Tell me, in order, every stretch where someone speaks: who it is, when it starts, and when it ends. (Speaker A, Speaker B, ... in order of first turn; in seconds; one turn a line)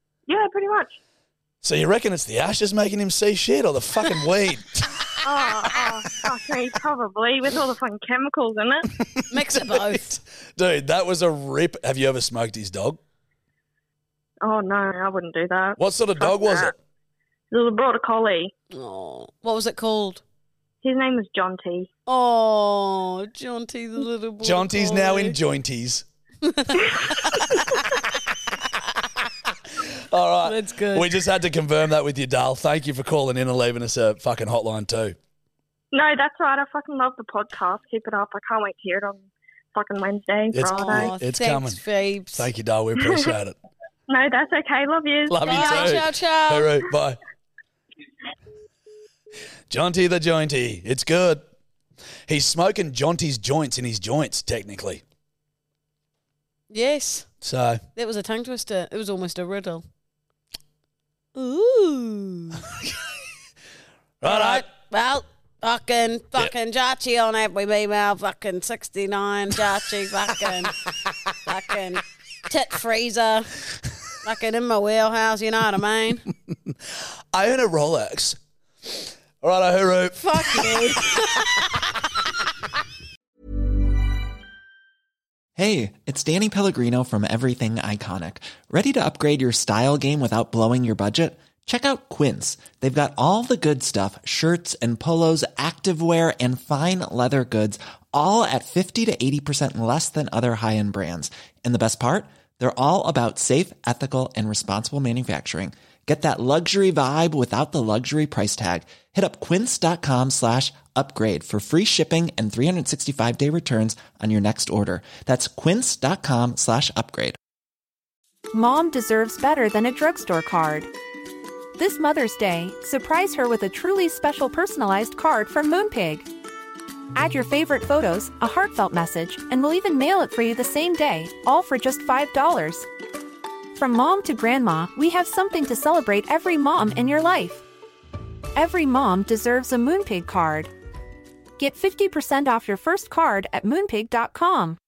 Speaker A: 0.3-1.0
Speaker B: 1.6-6.1
Speaker A: 5.2-8.9
Speaker B: 9.0-13.0
Speaker C: 9.3-10.1
Speaker A: 14.4-16.7
Speaker B: 15.8-16.8
Speaker A: 17.5-18.5
Speaker C: 18.7-20.2
Speaker A: 20.8-21.9
Speaker C: 22.1-25.4
Speaker B: 24.4-26.1
Speaker C: 26.4-27.6
Speaker B: 27.5-28.0
Speaker B: 30.1-35.2
Speaker C: 30.4-31.1
Speaker A: 35.9-41.1
Speaker B: 40.5-41.8
Speaker C: 40.7-42.5
Speaker B: 42.4-43.6
Speaker A: 43.0-43.4
Speaker A: 44.1-46.0
Speaker B: 45.3-47.2
Speaker C: 45.5-46.7
Speaker B: 49.7-51.4
Speaker B: 52.3-55.0
Speaker C: 56.7-57.3
Speaker B: 57.4-57.8
Speaker C: 58.0-59.9
Speaker C: 61.4-62.6
Speaker B: 62.7-63.0
Speaker B: 64.2-64.7
Speaker C: 64.2-70.8
Speaker C: 71.5-73.6
Speaker C: 74.2-76.2
Speaker B: 77.3-81.2
Speaker C: 80.2-81.6
Speaker D: 85.6-117.4
Speaker E: 118.5-120.9
Speaker E: 121.8-126.3
Speaker E: 127.2-132.9
Speaker E: 133.8-137.7
Speaker E: 138.6-140.7
Speaker E: 141.6-144.8